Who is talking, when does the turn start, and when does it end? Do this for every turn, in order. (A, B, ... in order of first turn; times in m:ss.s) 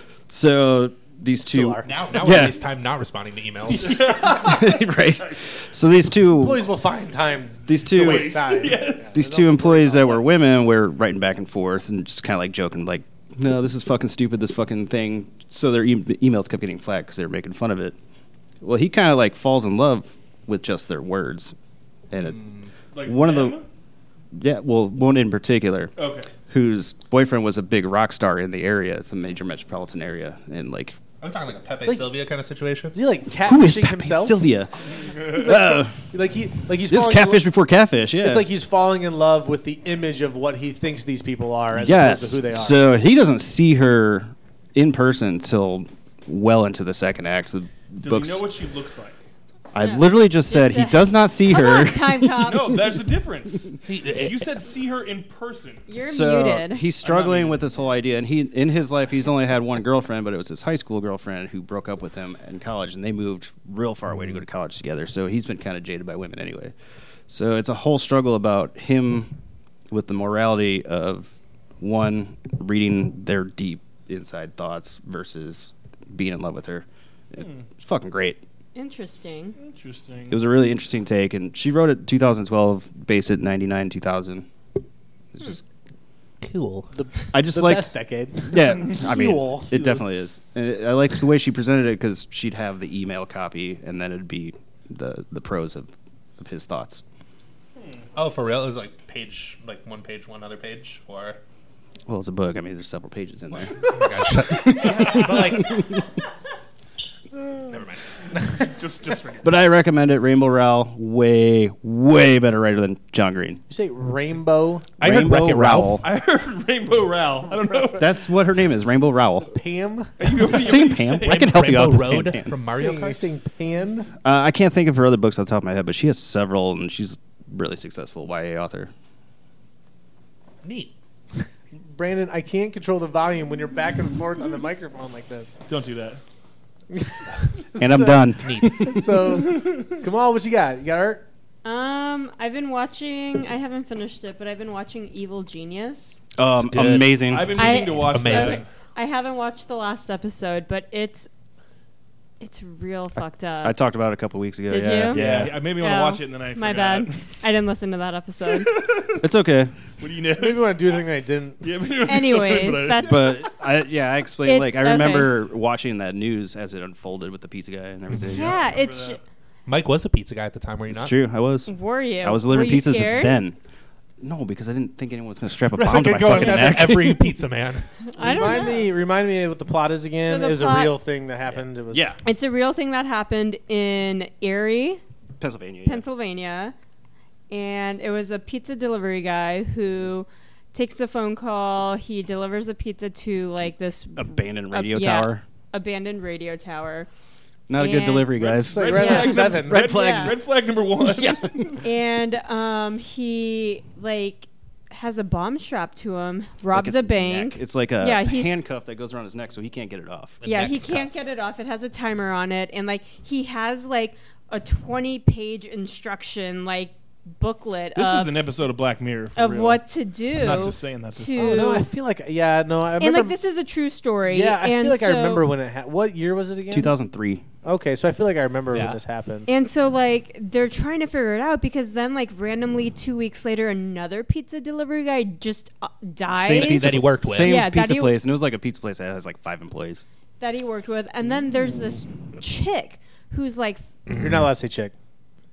0:00.3-0:02.6 A
0:01.4-0:02.0 B
0:01.8-0:04.1 C
0:03.8-0:04.8 D
0:04.0-0:04.5 B
0:04.3-0:06.7 A
0:06.4-0:10.3 B
0:07.7-0:08.5 A
0:08.0-0:09.2 D
0:09.1-0:18.0 A
0:18.6-0:21.6 A
0:22.1-0:22.5 A
0:22.2-0:22.7 C
0:22.9-0:23.7 D
0:23.0-0:23.6 A
0:24.3-0:26.0 A
0:26.0-0:26.3 D
0:26.5-0:31.0 A
0:31.2-0:33.0 C
0:32.9-0:34.4 B
0:33.4-0:36.0 A
0:35.0-0:35.5 D
0:35.2-0:37.5 B
0:36.9-0:38.5 A
0:38.2-0:42.8 B
0:41.8-0:48.5 A
0:48.0-0:49.2 D
0:49.7-0:52.8 A
0:49.8-0:52.8 E
0:52.4-0:55.9 D
0:53.9-0:54.5 C
0:55.9-0:56.9 E
0:56.0-1:06.7 A
0:57.0-0:57.7 D
1:07.3-1:09.3 A
1:09.9-1:18.4 A
1:17.4-1:17.7 D
1:18.8-1:19.6 E
1:19.6-1:20.4 D
1:20.3-1:24.5 A
1:25.4-1:25.6 A
1:26.4-1:26.9 C
1:26.9-1:29.8 B
1:27.3-1:27.9 A
1:28.5-1:37.0 A
1:37.8-1:38.0 D
1:38.2-1:41.4 C
1:42.1-1:46.1 A
1:43.8-1:45.9 C
1:47.7-1:48.0 C
1:48.4-1:49.8 D
1:49.4-1:53.6 A
1:53.7-1:54.9 B
1:55.0-1:56.0 C
1:55.0-1:56.0 A
1:56.0-1:58.1 D
1:58.0-1:59.5 A
1:59.4-2:00.6 B
2:00.2-2:01.5 D
2:00.4-2:02.6 A
2:01.2-2:03.3 C
2:02.7-2:04.1 B
2:04.2-2:08.9 A
2:10.6-2:10.9 C
2:11.9-2:15.6 B
2:15.7-2:16.2 D
2:16.9-2:21.2 B
2:17.8-2:19.2 A
2:18.4-2:18.9 C
2:19.4-2:19.8 D
2:21.6-2:26.2 E
2:26.4-2:27.9 A
2:26.5-2:28.6 C
2:27.3-2:28.7 D
2:27.6-2:31.3 E
2:32.4-2:33.8 E
2:33.6-2:35.6 A
2:34.7-2:35.2 E
2:35.1-2:37.2 D
2:35.2-2:35.5 C
2:35.8-2:38.8 E
2:38.5-2:39.3 D
2:39.2-2:39.8 A
2:40.0-2:41.0 D
2:40.4-2:41.7 B
2:41.6-2:43.4 D
2:42.0-2:43.4 E
2:43.0-2:48.7 A
2:44.4-2:45.4 E
2:48.1-2:48.5 C
2:48.2-2:49.2 E
2:48.6-2:49.2 D
2:49.7-2:51.2 C
2:50.9-2:53.6 A
2:51.7-2:53.4 E
2:54.2-2:57.3 A
2:55.7-2:57.9 C
2:58.1-2:58.9 E
2:58.2-3:02.1 B
3:00.2-3:01.0 E
3:01.5-3:02.2 A
3:02.2-3:05.0 E
3:05.4-3:06.0 A
3:05.8-3:06.8 E
3:07.5-3:17.1 E
3:14.2-3:15.4 A
3:17.7-3:20.3 A
3:17.8-3:18.3 E
3:18.3-3:21.8 D
3:18.7-3:20.0 B
3:18.9-3:20.4 E
3:21.0-3:21.8 A
3:21.8-3:28.6 E
3:26.7-3:30.4 A
3:30.4-3:31.1 C
3:30.4-3:38.3 E
3:38.0-3:41.6 D
3:39.4-3:41.9 E
3:41.4-3:43.4 B
3:43.0-3:45.5 E
3:44.3-3:46.9 B
3:46.7-3:47.4 A
3:47.6-3:49.5 B
3:48.7-3:49.0 C
3:49.5-3:58.2 E
3:56.3-4:00.0 A
3:56.5-3:57.6 C
4:00.4-4:03.8 E
4:04.2-4:04.9 B